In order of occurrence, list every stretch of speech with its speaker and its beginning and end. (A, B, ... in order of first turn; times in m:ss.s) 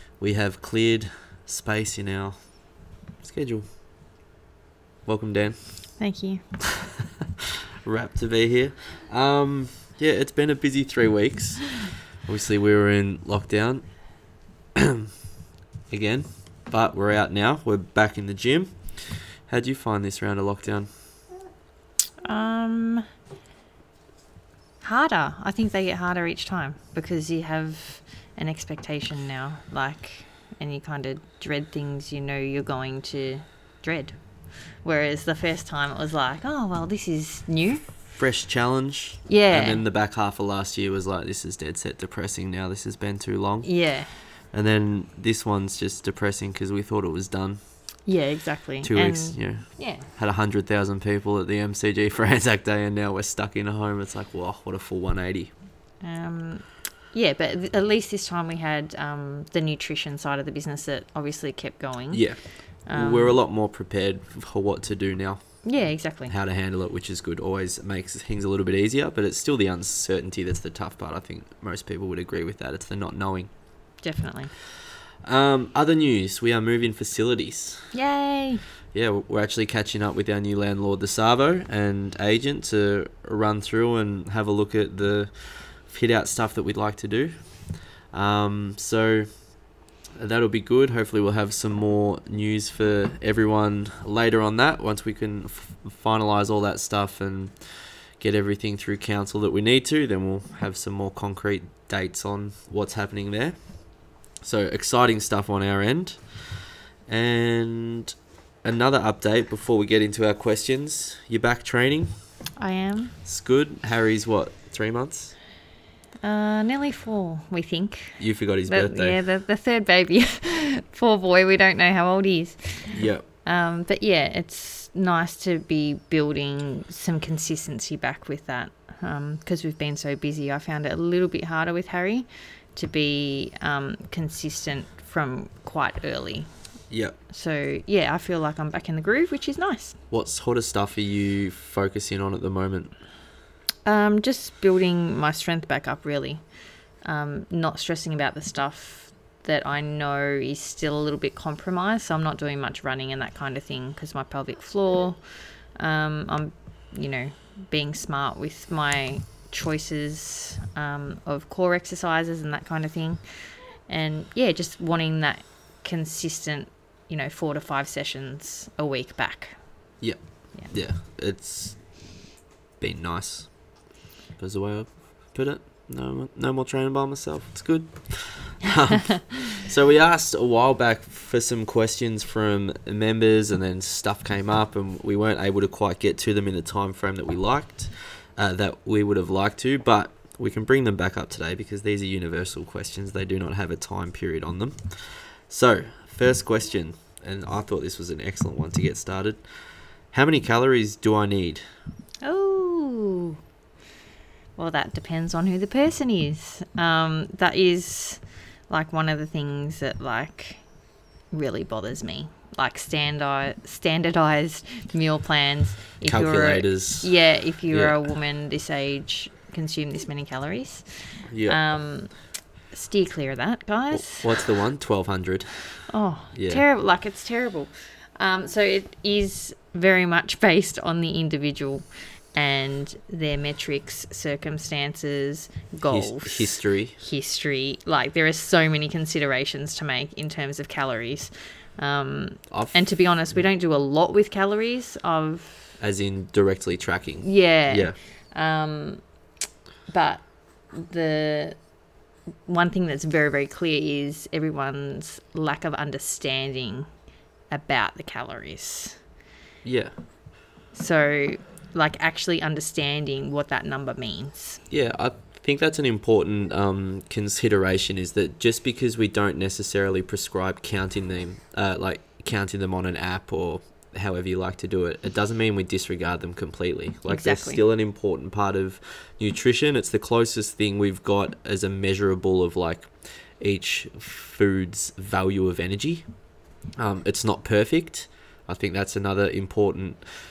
0:00.2-0:02.4 A
0:03.2-0:03.6 A
0:05.1-0:05.6 A
0:06.0-0:06.4 B
0:06.7-0:13.8 A
0:14.8-0:15.1 A
0:15.9-0:18.7 A
0:19.5-0:20.9 A
0:22.2-0:23.1 B
0:24.8-0:34.2 B
0:34.8-0:37.8 B
0:38.2-0:43.7 A
0:39.3-0:39.8 B
0:43.6-0:44.1 B
0:44.5-0:47.6 A
0:48.1-0:50.1 B
0:48.8-0:55.5 A
0:56.0-1:02.2 B
1:02.1-1:02.4 A
1:02.9-1:03.4 B
1:02.9-1:05.4 A
1:05.6-1:06.3 B
1:06.3-1:13.5 A
1:14.0-1:14.5 B
1:15.2-1:17.9 A
1:17.9-1:18.6 B
1:18.9-1:25.3 A
1:25.9-1:27.3 A
1:28.1-1:29.3 A
1:30.2-1:37.5 A
1:38.2-1:43.6 A
1:44.4-1:46.2 A
1:47.1-1:52.1 A
1:52.6-1:53.1 B
1:53.2-1:55.4 A
1:56.2-2:16.5 B
1:58.2-1:59.2 A
2:02.9-2:03.2 A
2:16.9-2:17.2 A
2:17.3-2:20.0 B
2:20.1-2:22.9 A
2:23.8-2:26.4 B
2:27.0-2:43.2 B
2:43.9-2:49.6 B
2:50.0-2:51.8 A
2:52.8-2:53.5 A
2:54.4-3:19.4 A
3:20.1-3:21.6 A
3:22.2-3:23.4 B
3:24.6-3:30.6 B
3:31.3-3:40.9 B
3:36.0-3:37.1 A
3:37.7-3:38.0 A
3:41.3-3:41.6 A
3:41.4-3:42.1 B
3:42.7-3:44.3 B
3:43.9-3:45.6 A
3:45.9-4:05.8 B
3:46.3-3:46.6 A
3:55.9-3:57.0 A
4:02.5-4:02.8 A
4:05.8-4:08.0 A
4:07.2-4:09.0 B
4:09.9-4:11.6 B
4:12.5-4:16.9 B
4:17.5-4:19.0 B
4:19.6-4:19.9 A
4:20.7-4:24.6 B
4:24.7-4:46.0 A
4:37.1-4:37.6 B
4:46.8-4:50.0 A